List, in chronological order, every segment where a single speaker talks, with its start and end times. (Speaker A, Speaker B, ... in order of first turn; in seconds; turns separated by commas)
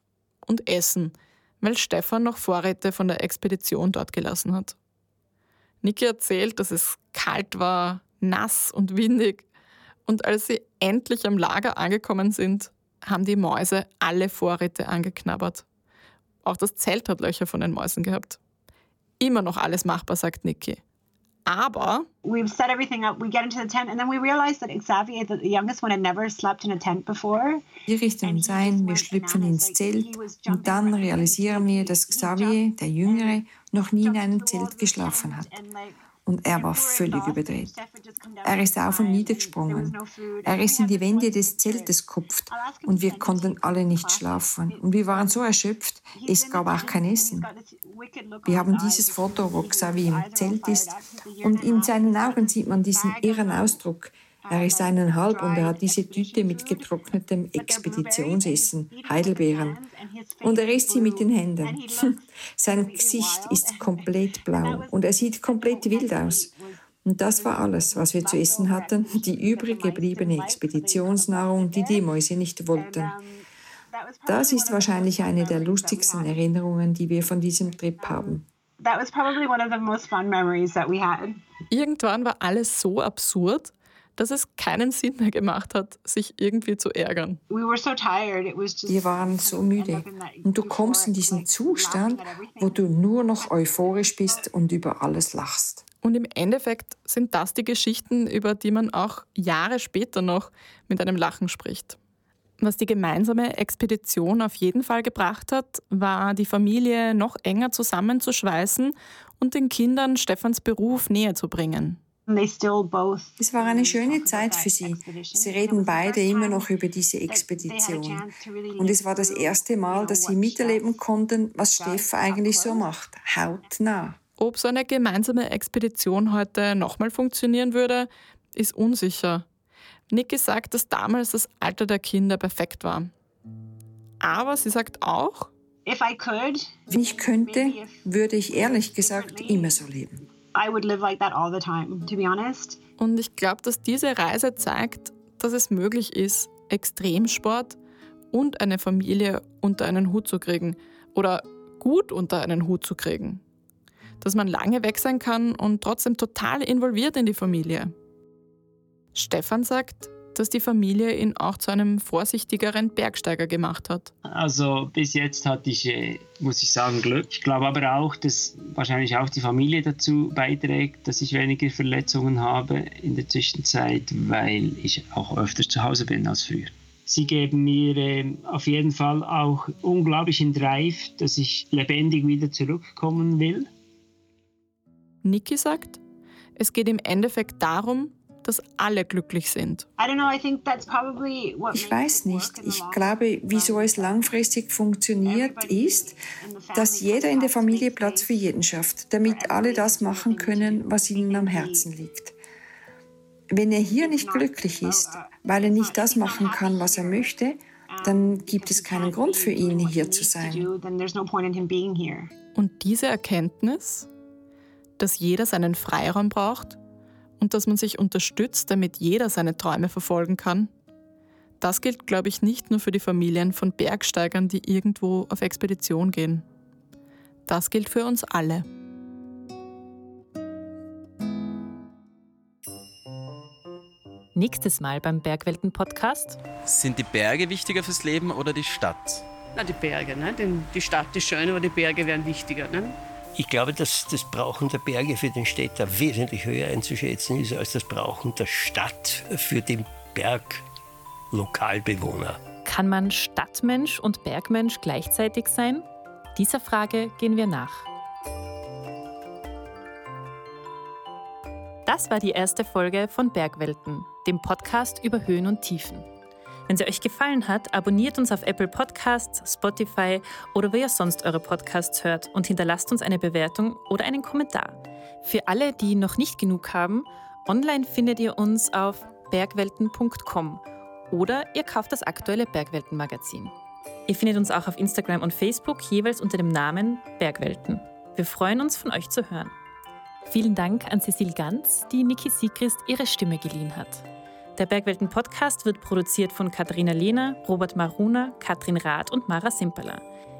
Speaker A: 0.4-4.8, Speaker A: 5.8-9.5, Speaker A: 10.1-15.7, Speaker A: 16.4-18.4, Speaker A: 19.2-20.8, Speaker A: 21.5-22.1, Speaker B: 22.2-27.6, Speaker C: 27.9-35.6, Speaker B: 28.2-33.4, Speaker B: 34.0-36.0, Speaker C: 36.3-37.7, Speaker B: 36.5-41.9, Speaker C: 38.4-47.5, Speaker B: 42.5-45.4, Speaker B: 46.1-53.8, Speaker C: 48.5-50.9, Speaker C: 51.4-59.8, Speaker B: 54.5-56.9, Speaker B: 57.6-72.1, Speaker C: 60.4-66.5, Speaker C: 67.0-73.2, Speaker B: 72.7-76.4, Speaker C: 74.3-78.4, Speaker B: 78.0-81.4, Speaker A: 81.7-87.4, Speaker B: 87.5-94.5, Speaker C: 88.9-95.8, Speaker A: 96.0-102.0, Speaker A: 102.6-112.0, Speaker B: 112.3-116.7, Speaker C: 113.4-118.2, Speaker B: 117.3-121.0, Speaker C: 118.8-124.2, Speaker B: 121.8-122.9, Speaker A: 124.4-129.4, Speaker A: 130.1-133.1, Speaker A: 134.2-135.5, Speaker B: 135.8-139.8, Speaker C: 136.9-140.2, Speaker B: 140.5-142.8, Speaker A: 143.0-147.8, Speaker A: 148.3-153.4, Speaker A: 154.2-157.9, Speaker A: 159.2-164.1, Speaker D: 164.3-183.7, Speaker A: 185.2-186.0, Speaker A: 186.6-189.9, Speaker B: 190.0-194.2, Speaker C: 191.7-196.2, Speaker B: 195.2-198.4, Speaker C: 196.7-202.4, Speaker B: 199.2-201.9, Speaker C: 203.5-210.7, Speaker B: 204.0-207.3, Speaker B: 207.9-212.3, Speaker A: 212.6-214.1, Speaker A: 215.0-216.8, Speaker A: 217.4-220.7, Speaker A: 221.6-226.4, Speaker A: 227.5-228.7, Speaker E: 234.3-236.4, Speaker F: 236.7-239.2, Speaker G: 239.6-243.0, Speaker H: 243.4-250.6, Speaker H: 251.3-252.4, Speaker E: 252.7-257.9, Speaker E: 261.9-266.1, Speaker E: 266.7-283.5, Speaker E: 284.1-289.5, Speaker E: 290.3-300.0